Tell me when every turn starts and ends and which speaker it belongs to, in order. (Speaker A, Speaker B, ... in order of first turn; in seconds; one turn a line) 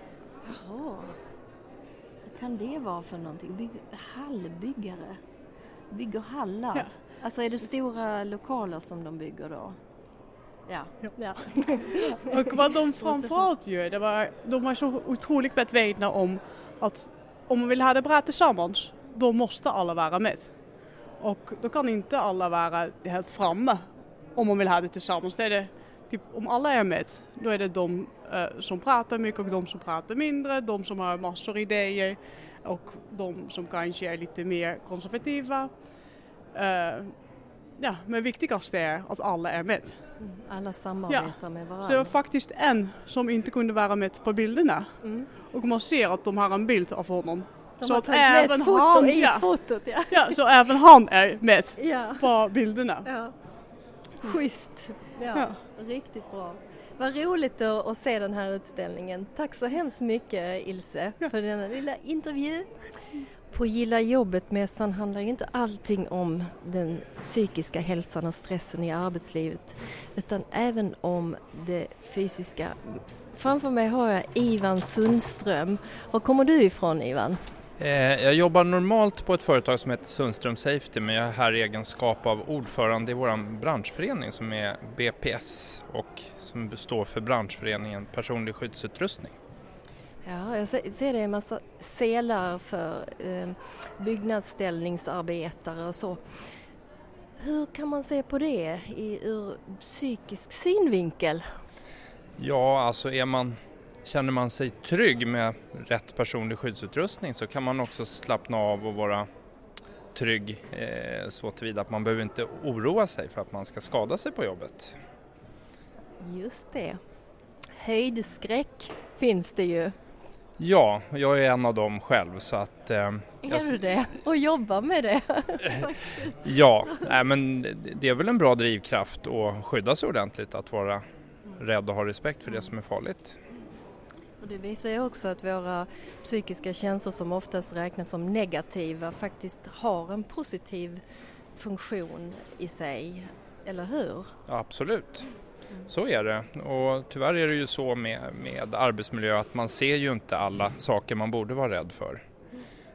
Speaker A: 0.5-1.2
Speaker A: 2.3-5.2
Speaker A: 5.9-9.8
Speaker A: 10.7-13.4
Speaker B: 12.2-20.6
Speaker B: 21.2-40.0
Speaker A: 40.2-42.1
Speaker B: 41.1-49.5
Speaker A: 45.0-45.3
Speaker A: 47.8-50.4
Speaker B: 50.1-53.1
Speaker A: 51.8-52.3
Speaker A: 53.0-53.4
Speaker A: 54.2-62.8
Speaker B: 55.3-55.6
Speaker A: 63.5-77.4
Speaker C: 77.8-89.3
Speaker A: 90.2-96.2
Speaker A: 97.4-101.5
Speaker C: 102.4-109.3
Speaker C: 110.1-115.0
Speaker A: 116.2-117.0
Speaker A: 117.8-120.0
Speaker C: 120.6-123.8
Speaker A: 123.4-127.1
Speaker C: 126.5-131.0
Speaker C: 131.6-133.3
Speaker A: 134.4-141.0
Speaker A: 141.6-144.3
Speaker C: 144.5-145.3
Speaker C: 145.9-152.2